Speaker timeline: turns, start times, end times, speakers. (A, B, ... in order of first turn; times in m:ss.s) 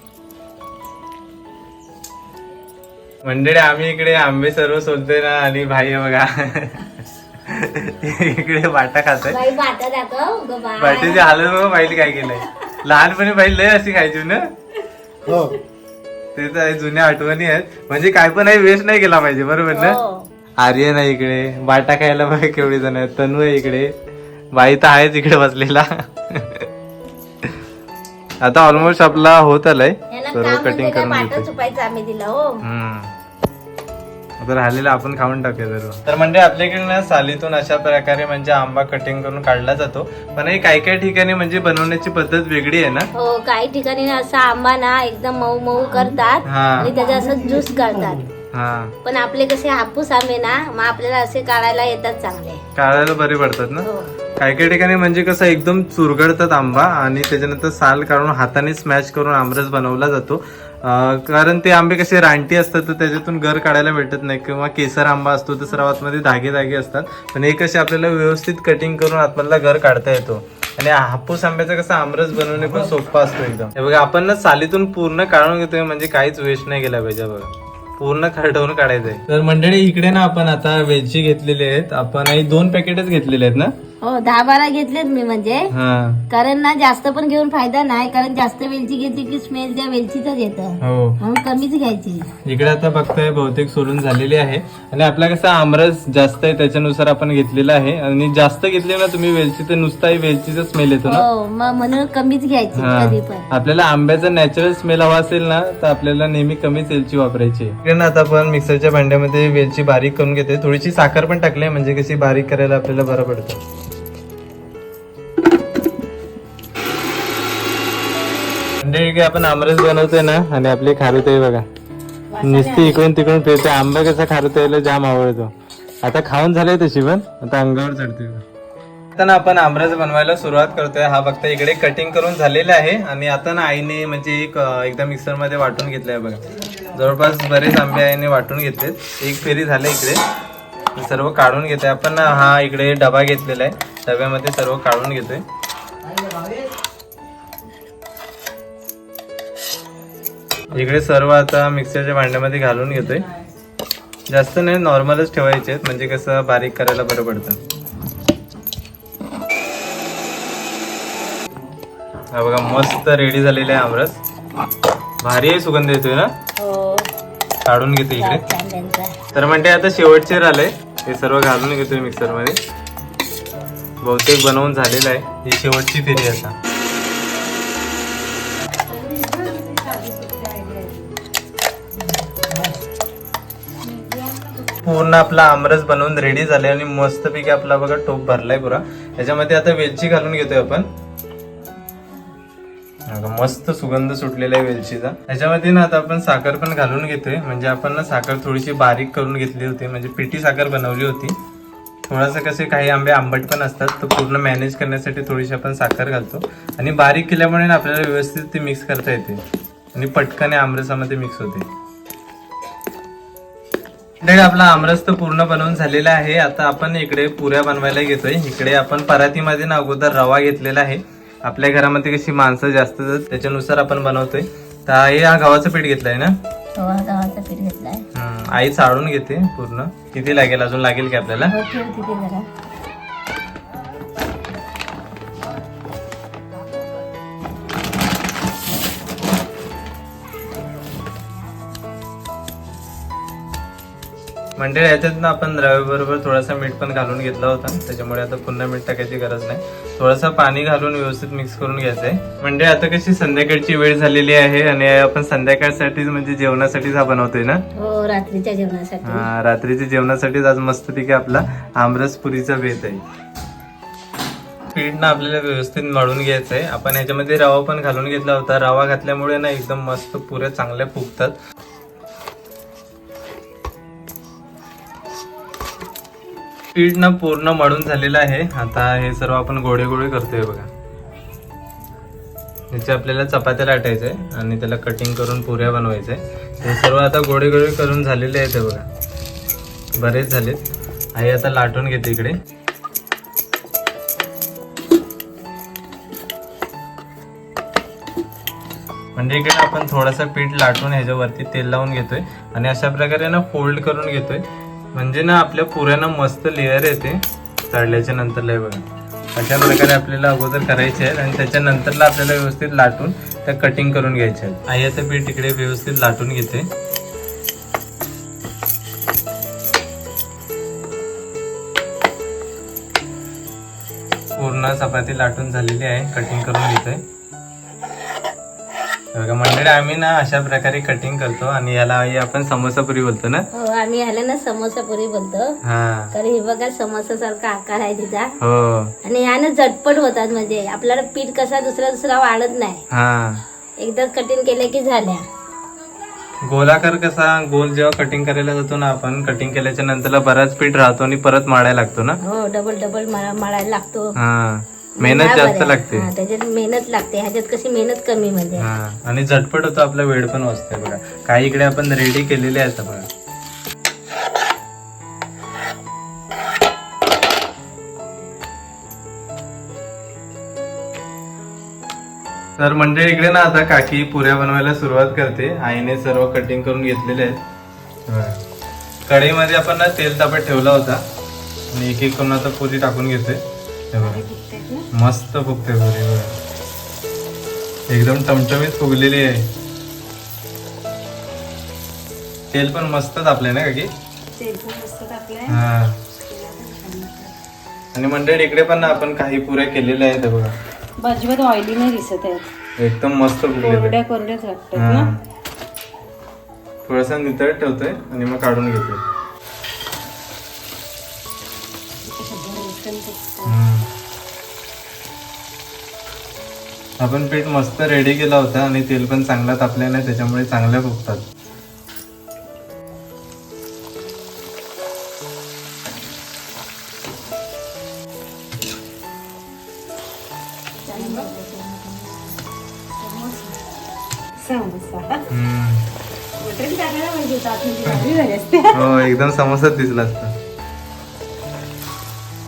0:03.2-0:09.4 A
0:09.3-0:11.3 B
0:10.8-0:14.5 A
0:16.4-0:20.0 A
0:19.7-0:20.3 B
0:20.6-0:23.9 A
0:24.5-0:26.7 A
0:28.4-0:31.5 A
0:28.7-0:29.3 B
0:30.1-0:32.6 B
0:32.6-0:33.1 A
0:34.4-0:43.1 A
0:43.2-0:48.3 B
0:46.4-0:46.9 A
0:46.9-0:47.6 C
0:48.5-0:49.0 A
0:49.0-0:52.6 B
0:52.8-1:23.7 A
0:53.8-0:54.1 B
1:24.0-1:25.7 B
1:25.7-1:26.2 A
1:26.3-1:32.3 B
1:30.8-1:31.2 A
1:32.4-1:41.3 A
1:41.0-1:43.5 B
1:42.8-1:53.6 A
1:58.8-2:01.6 A
2:02.3-2:03.0 C
2:02.4-2:08.4 A
2:09.2-2:20.2 A
2:21.0-2:25.4 A
2:30.7-2:33.3 A
2:34.3-2:37.6 A
2:42.3-2:44.2 A
2:45.2-2:46.3 A
2:46.6-2:47.1 B
2:47.6-2:48.4 A
2:48.2-2:49.2 B
2:49.3-2:52.6 A
2:54.0-2:56.6 A
2:58.9-3:01.2 C
3:03.8-3:05.0 C
3:04.8-3:10.9 A
3:13.1-3:21.4 A
3:22.1-3:29.4 A
3:29.9-3:31.7 A
3:34.2-3:46.3 A
3:46.8-3:48.0 B
3:48.1-3:51.6 A
3:51.5-3:52.5 B
4:04.6-4:17.6 A
4:17.8-4:19.3 B
4:19.0-4:23.0 A
4:24.7-4:31.4 A
4:36.8-4:40.7 A
4:42.7-4:48.8 A
4:50.0-4:50.6 A
4:51.2-4:52.4 A
4:59.2-5:08.8 A
5:09.4-5:16.7 A
5:24.4-5:27.0 A
5:29.2-5:33.5 A
5:33.5-5:35.6 B
5:35.6-5:36.1 A
5:36.1-5:38.4 B
5:38.4-5:38.9 A
5:39.0-5:42.8 B
5:42.9-5:43.4 A
5:43.8-5:45.2 B
5:46.5-5:52.2 A
5:52.2-5:54.1 B
5:54.2-5:56.1 A
5:55.0-5:58.7 B
5:58.6-6:03.1 A
6:12.6-6:17.4 A
6:18.1-6:18.4 A
6:19.1-6:21.0 A
6:21.7-6:23.4 A
6:23.9-6:24.2 A
6:24.0-6:24.9 C
6:24.9-6:26.4 A
6:27.9-6:29.5 A
6:32.5-6:33.9 A
6:34.4-6:37.4 C
6:35.5-6:36.0 A
6:37.9-6:40.5 A
6:41.0-6:42.5 C
6:42.8-6:44.0 A
6:43.6-6:45.1 C
6:44.8-6:45.2 A
6:46.8-6:49.0 A
6:52.0-6:53.6 C
6:53.4-6:53.9 A
6:57.0-7:01.2 A
7:10.9-7:12.3 B
7:10.9-7:11.3 C
7:13.0-7:13.6 C
7:14.4-7:15.3 C
7:15.3-7:15.9 A
7:16.4-7:19.1 C
7:18.7-7:20.3 A